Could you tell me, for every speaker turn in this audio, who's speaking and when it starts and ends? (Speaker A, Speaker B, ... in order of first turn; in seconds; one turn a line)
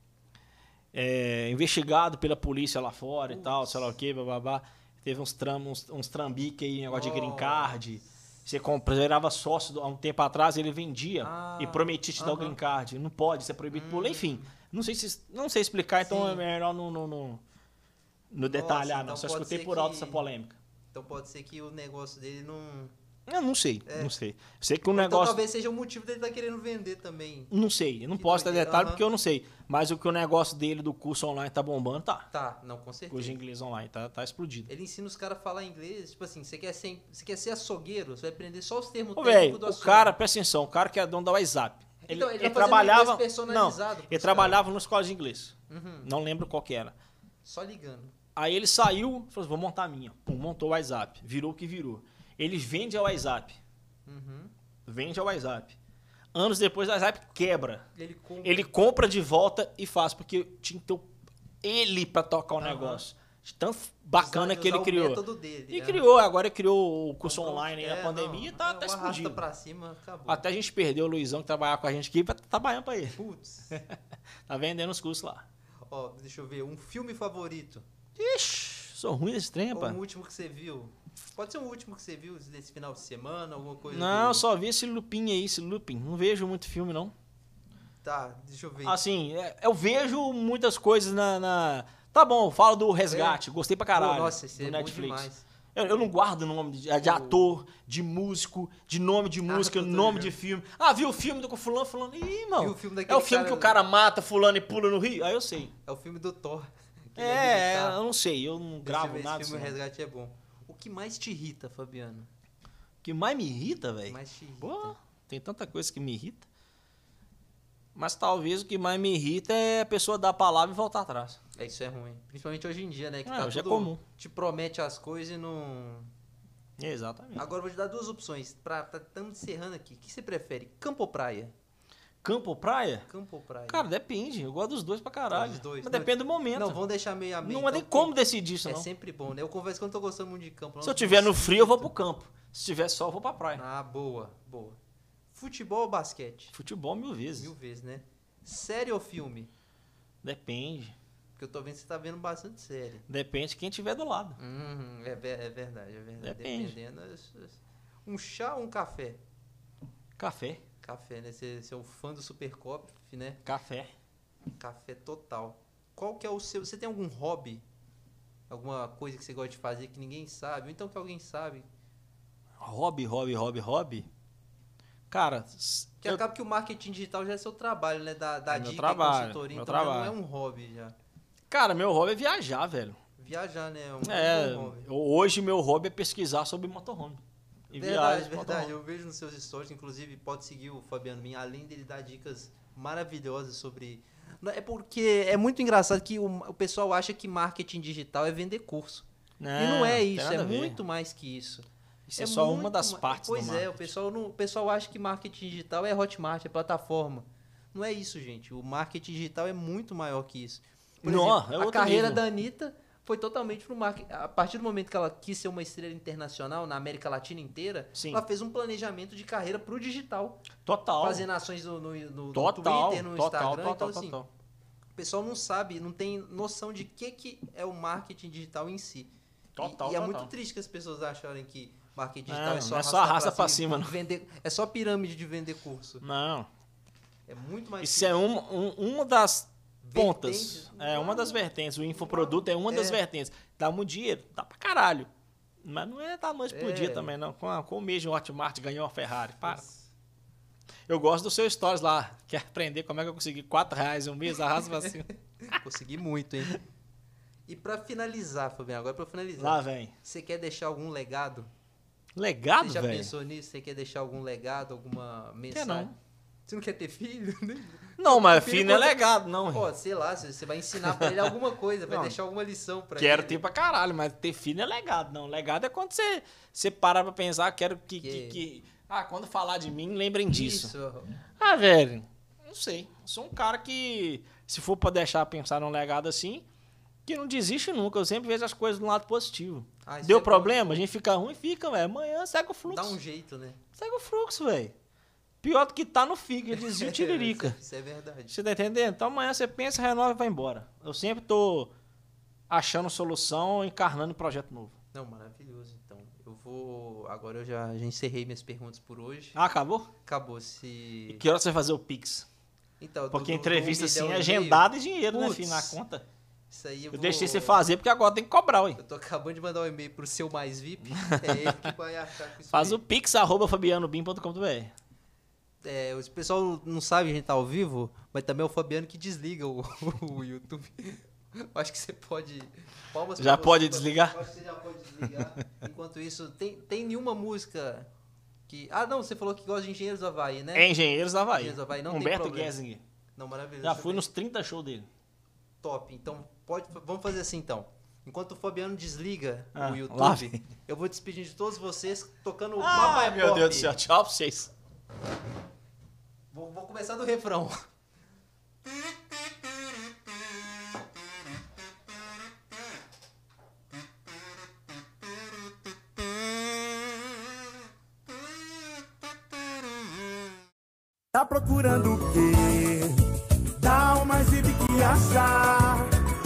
Speaker A: 0.9-17.4
Speaker B: 3.3-3.9
Speaker B: 6.9-7.8
Speaker B: 11.2-12.6
Speaker B: 13.7-14.5
Speaker B: 16.0-16.4
Speaker A: 18.3-20.6
Speaker B: 18.4-20.2
Speaker B: 20.9-22.9
Speaker A: 23.3-25.4
Speaker B: 23.9-24.1
Speaker B: 24.9-27.5
Speaker A: 27.5-32.3
Speaker B: 28.1-29.1
Speaker B: 32.3-33.4
Speaker A: 33.1-34.7
Speaker B: 34.7-40.1
Speaker A: 39.2-47.0
Speaker B: 42.0-44.6
Speaker B: 45.7-46.1
Speaker B: 47.4-48.1
Speaker A: 48.4-53.6
Speaker B: 54.1-54.5
Speaker A: 54.9-55.8
Speaker A: 56.3-57.9
Speaker B: 58.0-58.7
Speaker A: 58.4-61.1
Speaker A: 61.6-69.4
Speaker B: 62.6-63.0
Speaker B: 64.2-66.1
Speaker B: 67.2-70.4
Speaker A: 70.3-73.2
Speaker B: 73.2-73.8
Speaker A: 73.7-75.5
Speaker B: 75.9-77.8
Speaker A: 78.2-80.0
Speaker B: 79.7-84.4
Speaker A: 83.9-87.1
Speaker B: 88.0-89.0
Speaker A: 88.8-105.7
Speaker B: 93.1-93.4
Speaker B: 93.9-95.5
Speaker B: 97.0-97.4
Speaker B: 99.5-100.3
Speaker B: 102.6-103.8
Speaker B: 105.9-108.0
Speaker A: 107.2-109.8
Speaker B: 108.8-112.3
Speaker A: 113.0-116.5
Speaker B: 114.1-115.0
Speaker A: 118.0-121.4
Speaker B: 121.6-126.1
Speaker A: 123.3-124.0
Speaker A: 126.8-127.5
Speaker B: 127.4-131.5
Speaker A: 132.2-133.1
Speaker B: 133.1-133.9
Speaker A: 133.7-136.8
Speaker B: 135.3-141.9
Speaker A: 137.4-138.9
Speaker A: 140.8-143.6
Speaker B: 143.6-144.8
Speaker B: 145.3-146.6
Speaker A: 146.5-147.5
Speaker B: 147.4-149.5
Speaker A: 150.2-150.9
Speaker B: 151.4-153.1
Speaker A: 153.1-154.4
Speaker B: 154.4-159.2
Speaker A: 156.2-156.8
Speaker A: 160.2-160.6
Speaker B: 160.8-163.4
Speaker A: 163.4-163.9
Speaker B: 164.6-167.6
Speaker B: 168.5-171.7
Speaker A: 172.6-174.1
Speaker A: 175.1-176.2
Speaker B: 176.0-180.9
Speaker A: 178.5-180.2
Speaker A: 181.5-183.0
Speaker B: 183.2-184.9
Speaker A: 184.0-188.7
Speaker B: 187.8-201.7
Speaker A: 199.4-200.8
Speaker A: 202.1-203.9
Speaker B: 202.2-220.5
Speaker A: 211.0-212.2
Speaker A: 217.9-218.2
Speaker A: 220.6-221.3
Speaker B: 221.0-224.2
Speaker A: 222.3-224.3
Speaker B: 225.0-236.0
Speaker A: 229.6-230.3
Speaker A: 232.3-233.9
Speaker A: 236.0-236.5
Speaker B: 237.3-238.2
Speaker A: 237.8-245.1
Speaker B: 239.8-243.0
Speaker A: 245.6-249.6
Speaker B: 246.5-247.1
Speaker B: 249.4-249.9
Speaker A: 250.9-255.1
Speaker B: 255.4-256.6
Speaker B: 257.5-261.5
Speaker A: 259.4-259.9
Speaker A: 262.1-263.1
Speaker B: 262.6-265.9
Speaker A: 265.5-265.9
Speaker B: 266.5-273.4
Speaker A: 268.0-269.7
Speaker A: 270.8-271.3
Speaker A: 271.9-272.2
Speaker A: 273.0-280.7
Speaker B: 278.0-278.4
Speaker B: 280.3-281.2
Speaker A: 281.4-286.5
Speaker A: 287.1-293.0
Speaker B: 289.9-290.9
Speaker B: 292.7-293.6
Speaker A: 293.8-294.7
Speaker A: 295.4-297.6
Speaker B: 296.5-298.4
Speaker A: 298.3-301.7
Speaker A: 302.5-304.8
Speaker B: 304.9-309.4
Speaker A: 309.3-309.9
Speaker B: 310.1-311.2
Speaker A: 311.1-312.3
Speaker B: 312.8-315.8
Speaker A: 313.1-316.1
Speaker B: 316.5-317.6
Speaker A: 316.9-318.8
Speaker B: 318.8-322.8
Speaker A: 320.9-321.7
Speaker A: 322.5-324.7
Speaker B: 325.6-337.9
Speaker A: 333.2-334.2
Speaker B: 338.5-340.7
Speaker A: 340.6-342.8
Speaker B: 341.3-342.5
Speaker B: 343.2-344.1
Speaker A: 343.6-344.9
Speaker B: 345.6-353.7
Speaker A: 349.6-350.4
Speaker A: 352.6-354.5
Speaker B: 356.3-357.6
Speaker C: 371.1-373.1
Speaker C: 373.6-375.9